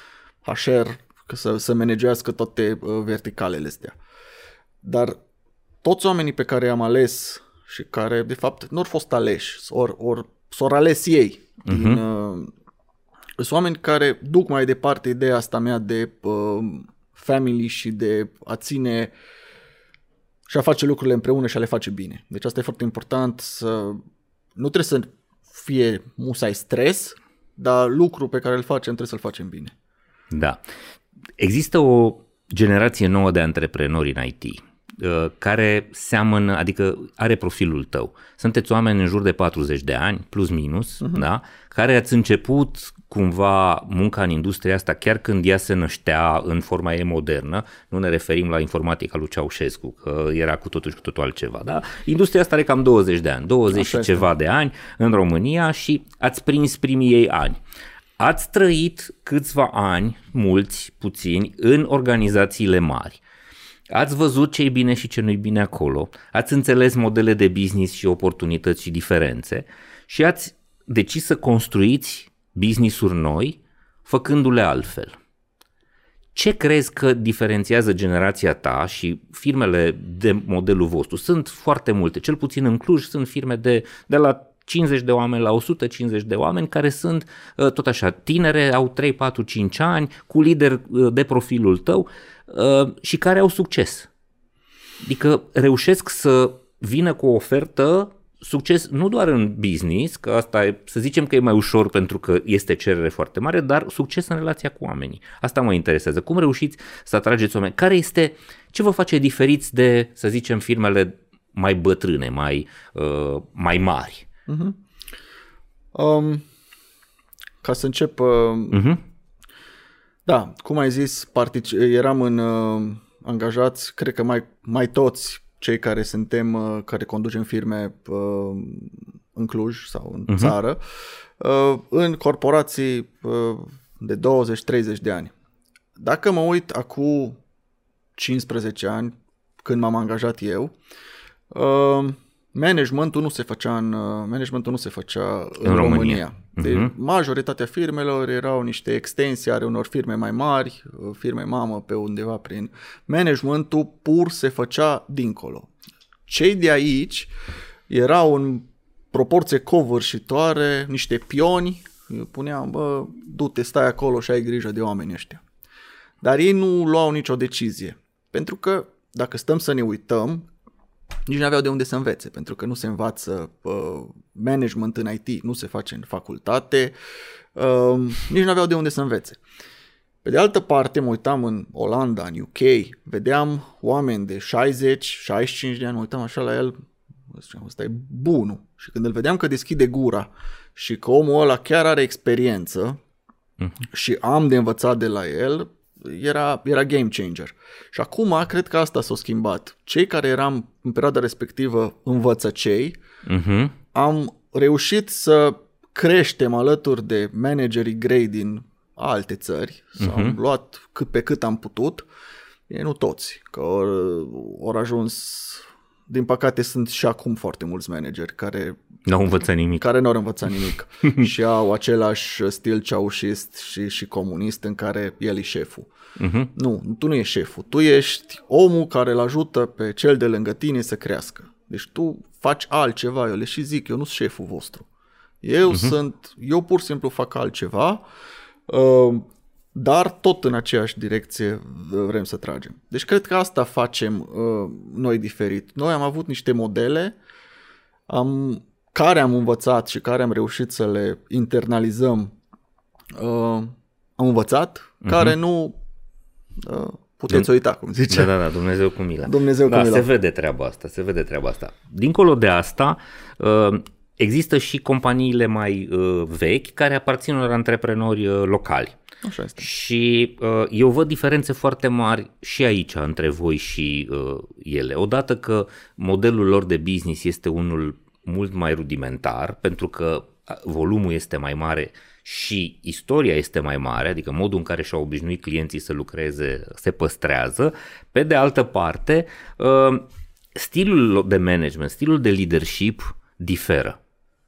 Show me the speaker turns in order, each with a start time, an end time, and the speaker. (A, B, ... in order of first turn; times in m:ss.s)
0:00.4-0:04.0 A
0:04.8-0:05.2 A
0:05.8-0:12.5 A
0:11.7-0:12.0 B
0:13.4-0:19.1 A
0:20.5-0:24.0 A
0:24.6-0:29.7 A
0:30.3-0:30.6 B
0:31.4-0:57.6 B
0:53.7-0:54.3 A
0:58.2-1:03.2 B
1:03.9-1:15.2 B
1:16.4-1:34.1 B
1:35.0-1:54.3 B
1:54.5-1:54.8 A
1:55.9-1:56.4 A
1:57.6-1:58.9 A
1:58.7-1:59.0 B
2:00.3-2:15.3 A
2:10.3-2:10.6 B
2:16.0-2:17.4 A
2:18.2-2:20.7 A
2:21.5-2:35.7 A
2:25.6-2:26.9 B
2:36.3-2:37.3 A
2:37.9-2:45.4 A
2:46.2-2:50.5 A
2:51.3-2:56.9 A
2:57.6-2:59.4 A
3:00.2-3:06.8 A
3:07.3-3:13.0 A
3:13.9-3:23.0 A
3:23.2-3:23.8 B
3:23.9-3:32.1 A
3:30.0-3:30.4 B
3:32.7-3:38.8 A
3:39.1-3:39.9 B
3:39.8-3:45.9 A
3:46.2-3:46.5 B
3:46.5-3:54.9 A
3:55.4-3:58.0 A
3:55.7-3:56.0 B
3:58.7-4:07.2 A
4:08.1-4:12.3 A
4:13.2-4:15.8 A
4:15.0-4:15.4 B
4:16.6-4:18.3 A
4:18.1-4:29.0 B
4:19.2-4:20.1 A
4:29.2-4:29.7 A
4:29.6-4:54.0 B